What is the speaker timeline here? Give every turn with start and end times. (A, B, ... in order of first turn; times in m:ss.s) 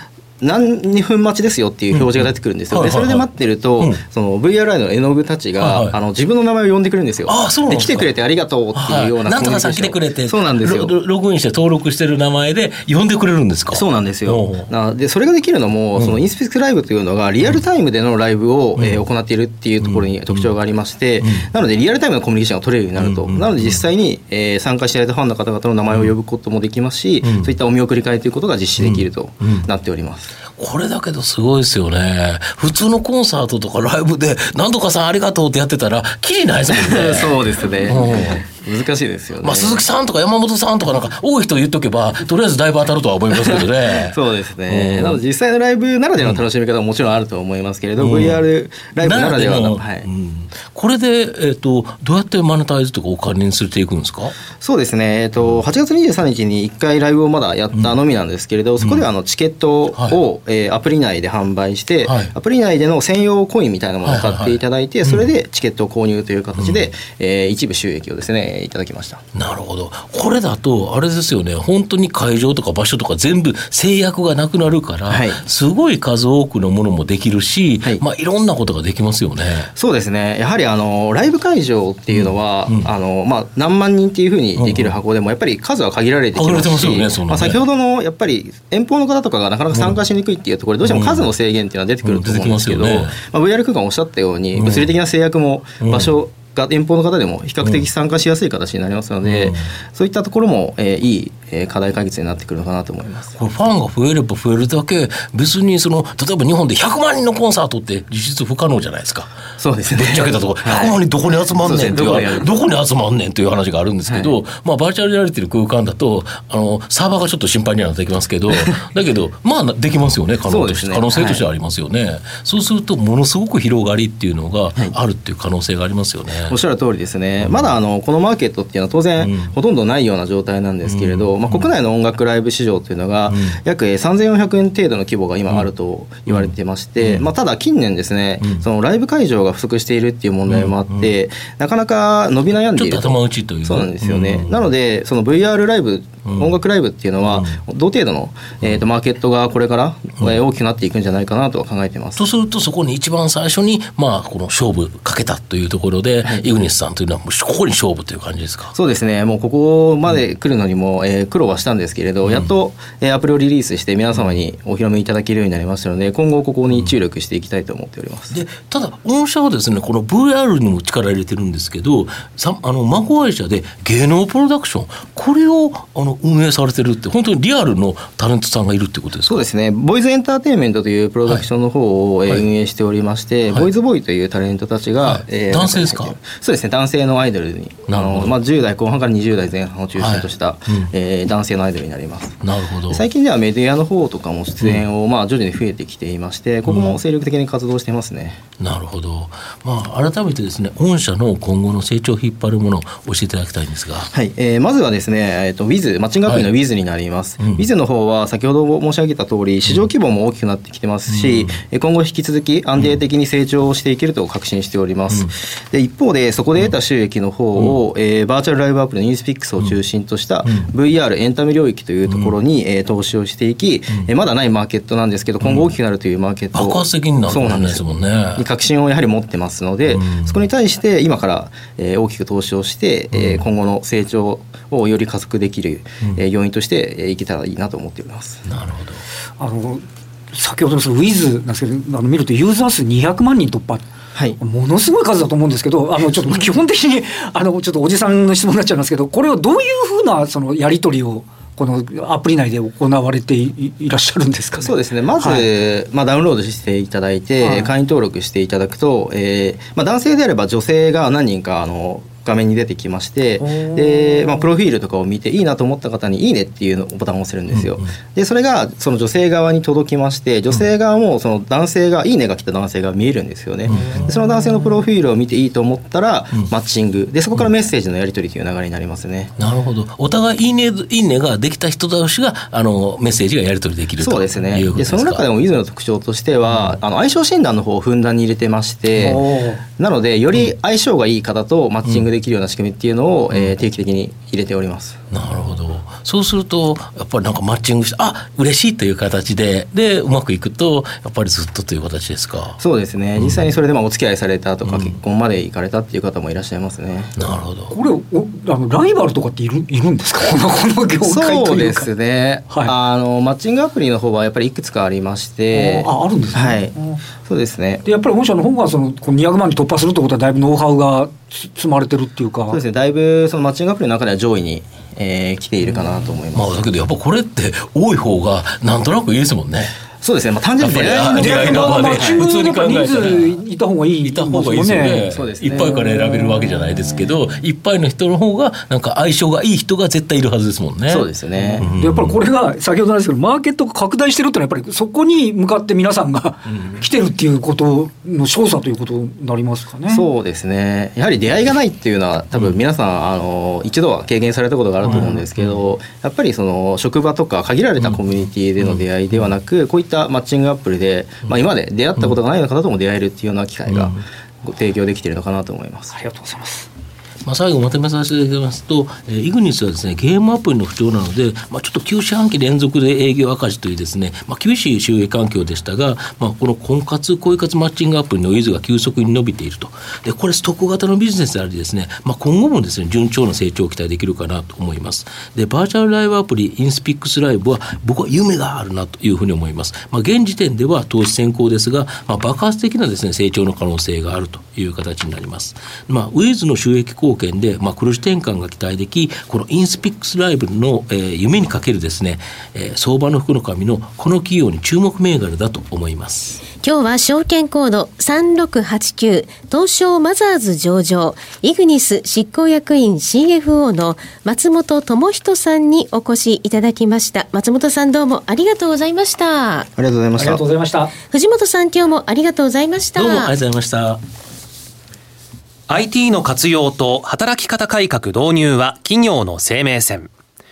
0:00.4-0:11.0 A
0:01.9-0:04.0 B
0:05.6-0:06.0 B
0:07.2-0:08.1 B
0:08.7-0:14.7 B
0:13.7-0:30.3 A
0:18.8-0:19.0 B
0:19.8-0:20.5 B
0:21.2-0:21.5 B
0:23.0-0:23.8 B
0:27.2-0:27.5 B
0:28.8-0:29.7 B
0:30.6-0:38.4 B
0:36.7-0:39.8 A
0:39.4-0:45.2 B
0:43.3-0:50.1 A
0:48.0-0:48.4 B
0:49.0-0:54.3 B
0:54.6-1:09.2 A
0:58.8-0:59.1 B
0:59.9-1:00.2 B
1:02.0-1:02.3 B
1:04.0-1:05.3 B
1:06.6-1:06.9 B
1:09.3-1:19.7 B
1:15.0-1:15.4 A
1:19.7-1:43.4 A
1:22.1-1:22.9 B
1:24.6-1:24.9 B
1:26.3-1:27.6 B
1:29.7-1:30.0 B
1:30.8-1:31.3 B
1:32.0-1:33.2 B
1:34.5-1:34.9 B
1:35.8-1:36.1 B
1:37.6-1:37.8 B
1:39.2-1:39.6 B
1:43.4-1:49.3 B
1:49.6-1:51.0 A
1:49.9-2:06.6 B
1:51.5-1:52.5 A
1:54.1-1:54.4 A
1:58.5-1:58.8 A
2:00.5-2:01.4 A
2:06.5-2:32.2 A
2:07.4-2:07.7 B
2:09.2-2:09.5 B
2:10.8-2:11.7 B
2:13.3-2:13.6 B
2:16.3-2:17.3 B
2:18.4-2:18.6 B
2:20.5-2:21.1 B
2:22.7-2:24.6 B
2:26.2-2:26.5 B
2:27.2-2:27.6 B
2:32.2-2:38.7 B
2:36.2-2:36.5 A
2:38.7-2:48.4 A
2:48.3-2:59.4 B
2:59.2-3:12.4 A
3:05.0-3:06.2 B
3:07.9-3:08.4 B
3:10.0-3:10.9 B
3:12.4-3:13.0 B
3:12.9-3:18.4 A
3:16.6-3:17.0 B
3:18.6-3:24.1 B
3:24.1-3:58.4 A
3:27.4-3:27.6 B
3:31.1-3:31.6 B
3:40.4-3:40.7 B
3:42.0-3:42.3 B
3:45.4-3:45.7 B
3:46.5-3:48.4 B
3:49.8-3:50.4 B
3:53.1-3:53.4 B
3:58.4-3:59.0 B
3:59.4-4:03.8 C
4:04.1-4:04.4 A
4:04.4-4:15.5 C
4:14.6-4:39.3 A
4:17.4-4:17.7 C
4:23.4-4:24.5 C
4:27.5-4:27.9 B
4:33.7-4:34.1 B
4:39.4-4:45.2 B
4:44.0-4:55.0 A
4:46.5-4:46.8 B
4:49.0-4:49.6 C
4:55.1-5:02.6 B
5:02.6-5:07.1 A
5:03.2-5:03.5 B
5:04.6-5:05.0 B
5:07.2-5:07.7 B
5:07.7-5:11.9 C
5:11.0-5:17.8 A
5:15.5-5:17.0 C
5:17.8-5:22.6 C
5:22.5-5:26.7 A
5:26.3-5:29.7 B
5:30.0-5:32.2 A
5:30.6-5:33.3 B
5:31.0-5:35.1 C
5:34.0-5:41.1 B
5:35.1-5:35.8 A
5:35.8-5:36.4 C
5:40.9-5:41.7 A
5:41.4-5:50.1 C
5:41.6-5:42.1 B
5:49.9-6:06.0 A
5:54.8-5:55.6 B
5:58.6-5:59.3 B
6:03.7-6:04.0 B
6:05.9-6:06.7 C
6:07.2-6:46.4 B
6:46.5-6:59.7 D
6:59.8-7:00.4 A
7:00.2-7:01.0 C
7:01.0-7:03.3 D
7:03.0-7:04.0 B
7:05.7-7:10.1 E